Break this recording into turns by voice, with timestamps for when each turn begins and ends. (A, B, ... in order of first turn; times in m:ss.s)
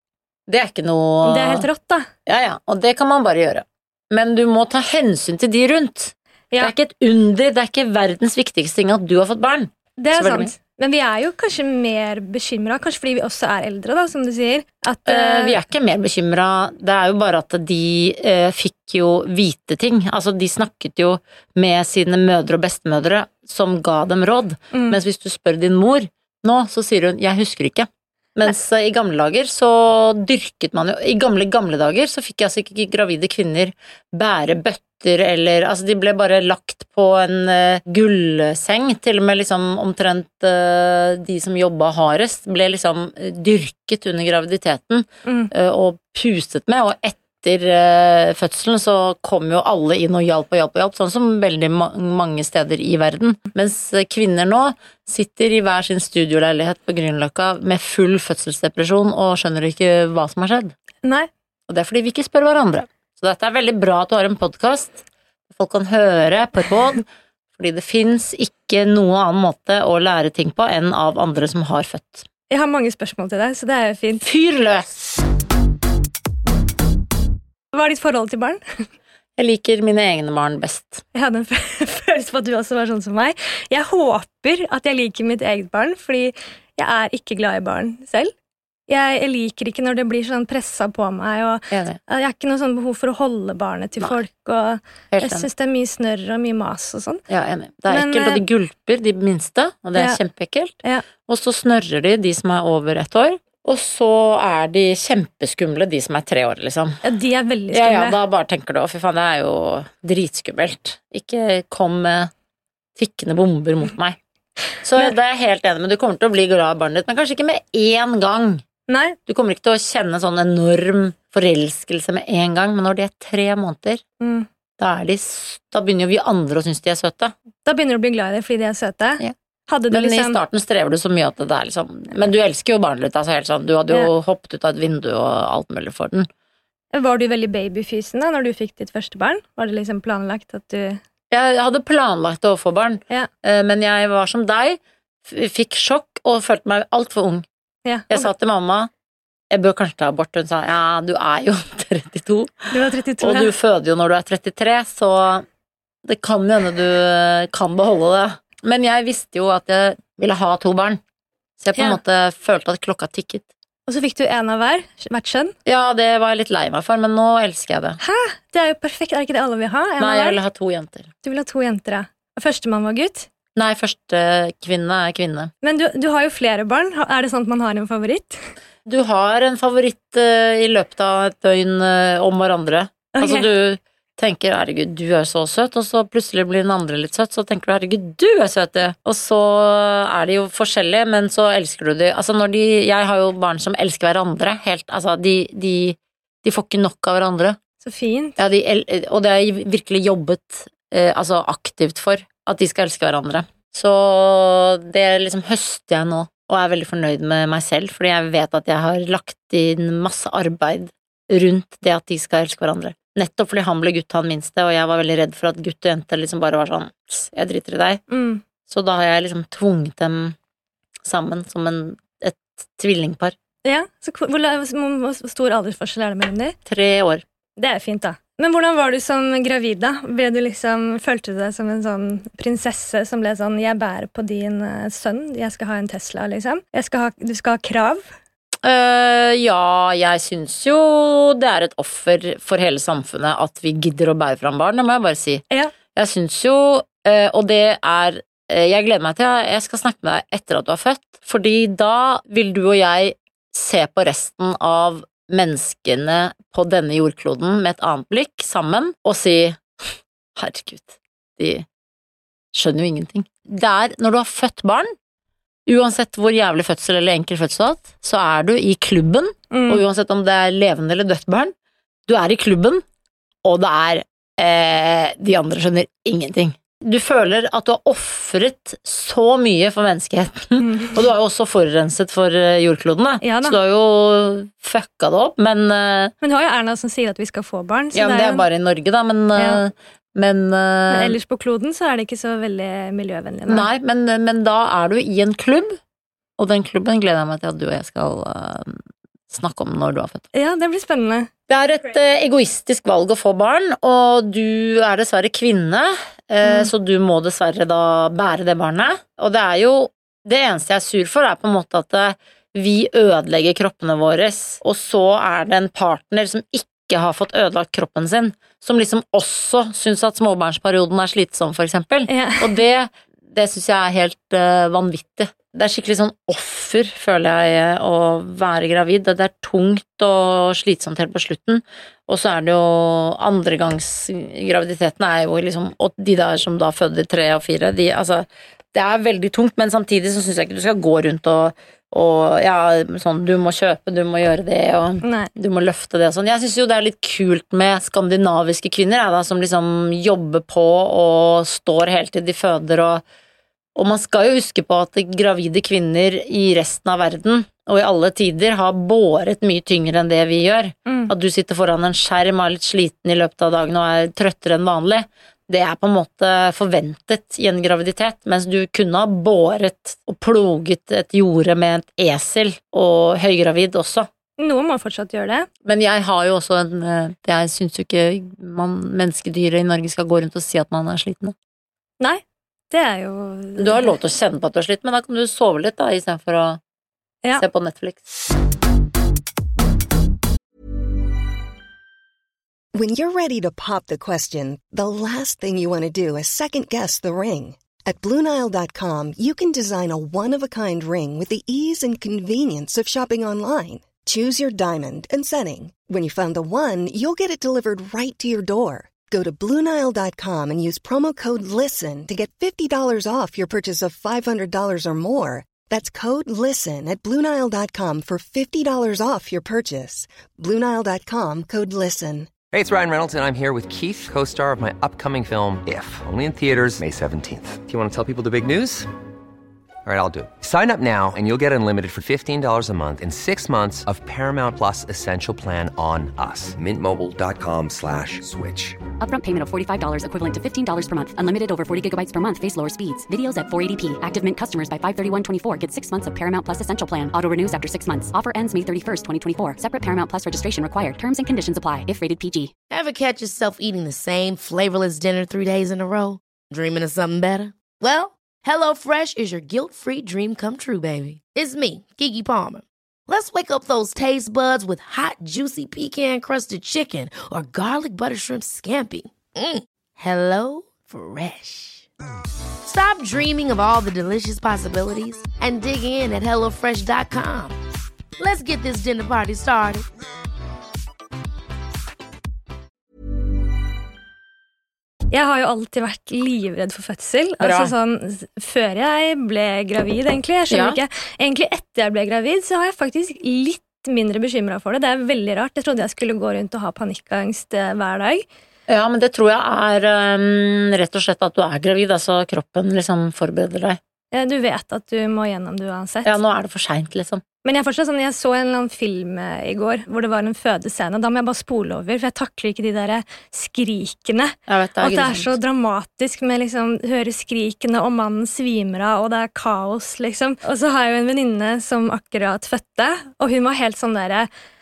0:00.5-0:01.7 A
0:01.2-0:02.1 B
0:02.2-0:10.5 A
0:10.0-0:15.6 B
0:15.1-1:00.7 A
0:24.7-0:25.0 B
0:45.2-0:45.5 B
1:01.0-1:01.3 B
1:01.7-1:07.0 A
1:07.5-1:12.3 A
1:12.5-1:14.2 B
1:14.2-1:15.1 A
1:17.7-1:18.6 B
1:19.4-1:21.0 A
1:21.1-1:28.3 B
1:28.9-1:37.2 B
1:31.7-1:32.0 A
1:35.1-1:35.5 A
1:37.3-1:47.0 A
1:37.9-1:38.4 B
1:47.0-1:48.2 B
1:47.7-1:52.3 A
1:53.0-1:54.2 A
1:54.8-1:58.6 A
1:58.9-1:59.2 B
1:59.3-2:04.0 A
2:04.2-2:04.5 B
2:04.8-2:07.3 A
2:07.6-2:10.4 B
2:09.9-2:16.3 A
2:16.9-2:21.0 B
2:21.3-2:27.4 A
2:27.8-2:28.3 B
2:28.1-2:28.9 A
2:29.5-2:35.4 A
2:32.7-2:33.5 B
2:36.0-2:41.0 A
2:41.6-2:43.5 A
2:43.9-2:45.5 B
2:45.6-2:48.0 A
2:48.0-2:50.4 B
2:50.0-2:51.1 A
2:51.2-2:53.3 B
2:53.5-2:55.5 A
2:55.6-2:58.4 B
2:58.8-3:17.6 A
3:03.1-3:03.5 B
3:17.8-3:18.4 B
3:18.4-3:38.0 A
3:38.1-3:38.4 B
3:38.7-3:40.4 A
3:41.0-3:43.4 A
3:43.6-3:46.6 B
3:46.6-3:47.2 A
3:47.6-3:58.0 B
3:58.6-4:21.6 A
4:22.5-4:24.9 A
4:25.6-4:31.5 A
4:29.5-4:29.8 B
4:32.1-4:32.8 A
4:33.4-4:46.1 A
4:40.6-4:40.9 B
4:43.2-4:43.6 B
4:46.2-4:48.4 B
4:47.9-4:51.2 A
4:49.4-4:49.6 B
4:50.9-4:53.6 B
4:53.5-4:55.8 A
4:56.4-5:00.2 A
5:00.3-5:01.3 B
5:01.5-5:53.0 A
5:06.4-5:06.7 B
5:22.1-5:22.5 B
5:45.0-5:45.3 B
5:53.8-6:14.1 A
6:00.9-6:01.1 B
6:14.4-6:15.5 B
6:15.6-6:21.4 A
6:22.0-6:24.0 B
6:23.6-6:26.6 A
6:27.4-6:28.0 A
6:32.7-7:02.3 C
7:02.5-7:08.9 D
7:09.8-7:18.8 D
7:19.0-7:32.5 E
7:32.7-7:51.9 F
7:52.6-7:57.5 F
7:58.2-7:59.9 F
8:05.1-8:18.2 B
8:07.4-8:07.7 A
8:10.5-8:10.8 A
8:18.7-8:23.8 A
8:24.1-8:26.2 B
8:26.0-8:27.2 A
8:27.4-8:44.3 B
8:34.5-8:35.4 A